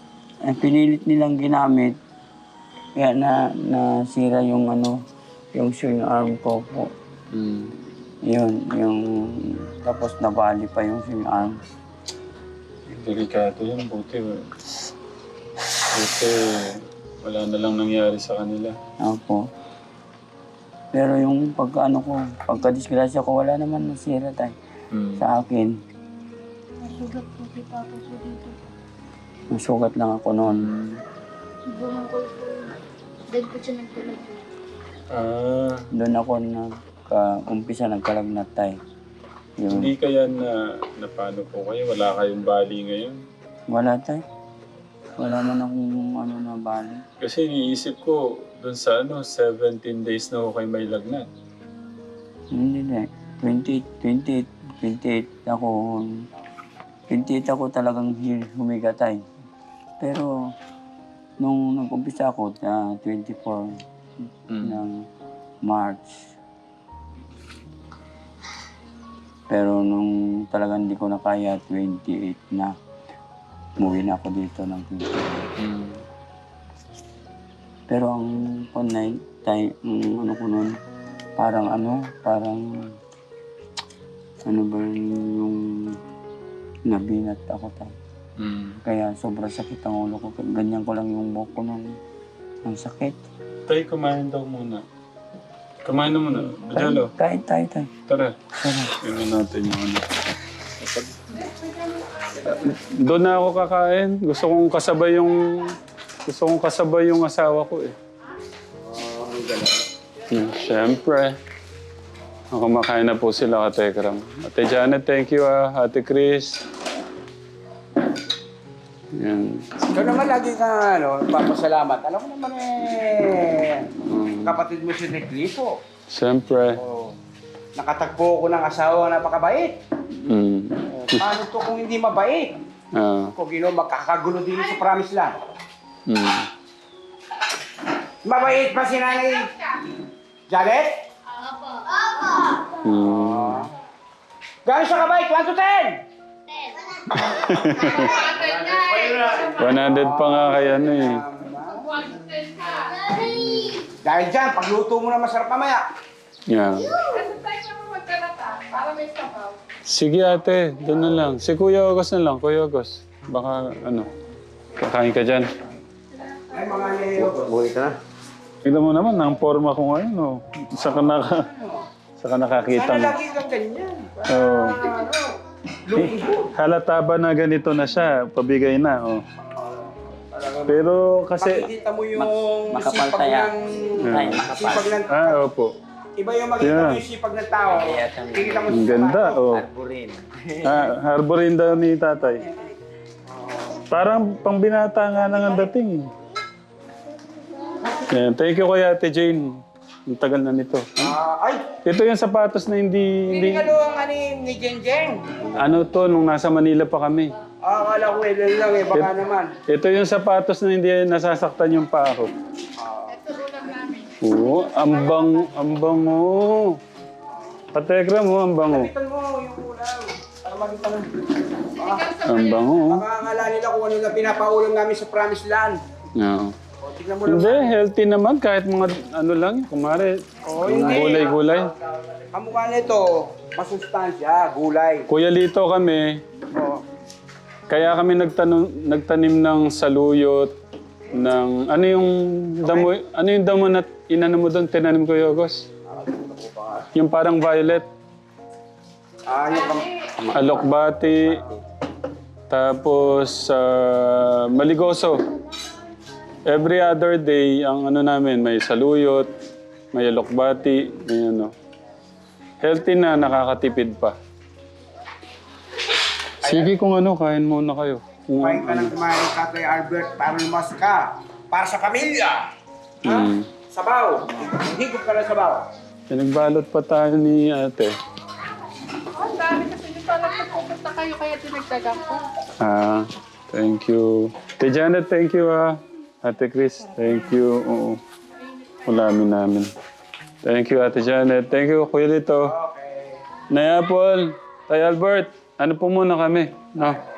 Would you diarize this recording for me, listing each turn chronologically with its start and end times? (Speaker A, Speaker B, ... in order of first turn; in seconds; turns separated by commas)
Speaker A: 0.4-1.9, Speaker A: 3.0-5.0, Speaker A: 5.5-6.9, Speaker B: 7.3-7.7, Speaker A: 8.2-11.6, Speaker B: 12.9-14.5, Speaker B: 15.9-18.8, Speaker A: 19.0-19.4, Speaker A: 20.9-24.6, Speaker B: 24.9-25.2, Speaker A: 25.2-25.7, Speaker C: 26.8-28.6, Speaker A: 29.5-30.7, Speaker B: 30.4-31.0, Speaker C: 31.7-32.8, Speaker C: 33.3-34.4, Speaker B: 35.1-35.8, Speaker A: 35.9-38.8, Speaker A: 39.6-39.9, Speaker B: 39.7-43.2, Speaker A: 43.7-44.2, Speaker A: 45.2-47.0, Speaker B: 47.2-51.3, Speaker A: 52.5-56.2, Speaker A: 57.1-59.2, Speaker A: 60.0-60.3, Speaker A: 61.4-63.8, Speaker B: 64.5-64.8, Speaker A: 64.6-65.1, Speaker A: 65.6-66.2, Speaker A: 69.5-72.7, Speaker A: 73.8-75.2, Speaker B: 75.6-76.0, Speaker A: 77.9-80.8, Speaker A: 81.4-82.9, Speaker A: 84.4-86.0, Speaker A: 86.9-87.9, Speaker B: 88.4-88.8, Speaker A: 88.8-92.0, Speaker A: 92.6-93.2, Speaker B: 93.7-94.8, Speaker B: 95.8-97.1, Speaker A: 96.5-97.9, Speaker B: 98.1-98.4, Speaker A: 98.6-98.9, Speaker B: 99.0-100.1, Speaker D: 101.3-102.5, Speaker B: 102.5-108.0, Speaker E: 108.8-109.8, Speaker B: 110.3-111.4, Speaker B: 112.5-116.6, Speaker B: 119.1-120.0, Speaker E: 119.9-123.9, Speaker B: 124.0-124.6, Speaker E: 124.4-125.8, Speaker B: 126.1-126.8, Speaker E: 126.8-127.1, Speaker E: 127.8-129.7, Speaker B: 130.2-131.3, Speaker E: 130.9-132.5, Speaker B: 132.9-133.3, Speaker E: 133.3-135.3, Speaker B: 136.1-136.5, Speaker E: 138.2-139.5, Speaker E: 140.5-140.9, Speaker B: 142.8-143.7, Speaker E: 143.0-143.7, Speaker E: 144.7-146.0, Speaker B: 147.2-148.2, Speaker D: 147.8-149.8, Speaker E: 147.9-151.9, Speaker B: 149.6-151.2, Speaker D: 151.7-153.0, Speaker C: 153.1-153.8, Speaker E: 153.7-155.8, Speaker B: 156.5-157.0, Speaker D: 157.0-159.6, Speaker B: 159.9-164.1, Speaker B: 164.8-165.5, Speaker E: 166.5-167.6, Speaker A: 167.2-167.9, Speaker B: 168.6-171.5, Speaker E: 170.8-171.8, Speaker B: 172.2-173.2, Speaker E: 172.6-175.3, Speaker B: 174.3-174.8, Speaker E: 175.8-176.5, Speaker B: 176.0-179.2, Speaker E: 179.4-180.8, Speaker B: 180.7-181.7, Speaker E: 181.4-185.4, Speaker A: 182.1-185.0, Speaker B: 184.0-184.5, Speaker B: 185.1-185.7, Speaker E: 186.2-189.4, Speaker B: 186.6-187.0, Speaker A: 187.7-190.9, Speaker B: 188.7-189.6, Speaker B: 190.6-192.4, Speaker E: 192.2-192.7, Speaker E: 193.3-193.8, Speaker B: 193.9-196.1, Speaker B: 198.0-201.1, Speaker E: 201.0-201.7, Speaker B: 201.8-203.7, Speaker E: 203.3-205.5, Speaker B: 205.5-207.3, Speaker E: 207.6-209.5, Speaker B: 209.7-212.3, Speaker E: 212.8-213.2, Speaker D: 213.1-215.3, Speaker B: 214.2-216.8, Speaker E: 217.3-217.7, Speaker B: 217.7-218.9, Speaker E: 218.7-221.1, Speaker E: 221.8-222.2, Speaker D: 221.8-222.7, Speaker B: 222.2-223.1, Speaker E: 222.8-225.8, Speaker B: 226.2-226.6, Speaker E: 226.8-227.7, Speaker B: 227.2-231.7, Speaker E: 230.4-231.7, Speaker E: 232.3-235.1, Speaker B: 235.1-236.2, Speaker E: 236.5-236.8, Speaker B: 237.7-240.5, Speaker B: 241.1-245.7, Speaker E: 242.6-242.9, Speaker E: 245.9-246.9, Speaker B: 246.9-247.9, Speaker E: 249.3-249.9, Speaker D: 249.5-249.8, Speaker B: 250.3-251.4, Speaker B: 252.5-255.2, Speaker B: 256.5-259.3, Speaker B: 259.9-261.5, Speaker B: 262.6-264.2, Speaker B: 266.4-268.9, Speaker E: 266.4-266.7, Speaker E: 268.4-272.4, Speaker E: 273.0-275.6, Speaker B: 273.0-273.5, Speaker B: 276.1-277.9, Speaker D: 279.1-282.2, Speaker B: 282.6-288.0, Speaker B: 288.8-289.7, Speaker B: 290.4-292.5, Speaker E: 292.4-293.2, Speaker B: 293.5-297.0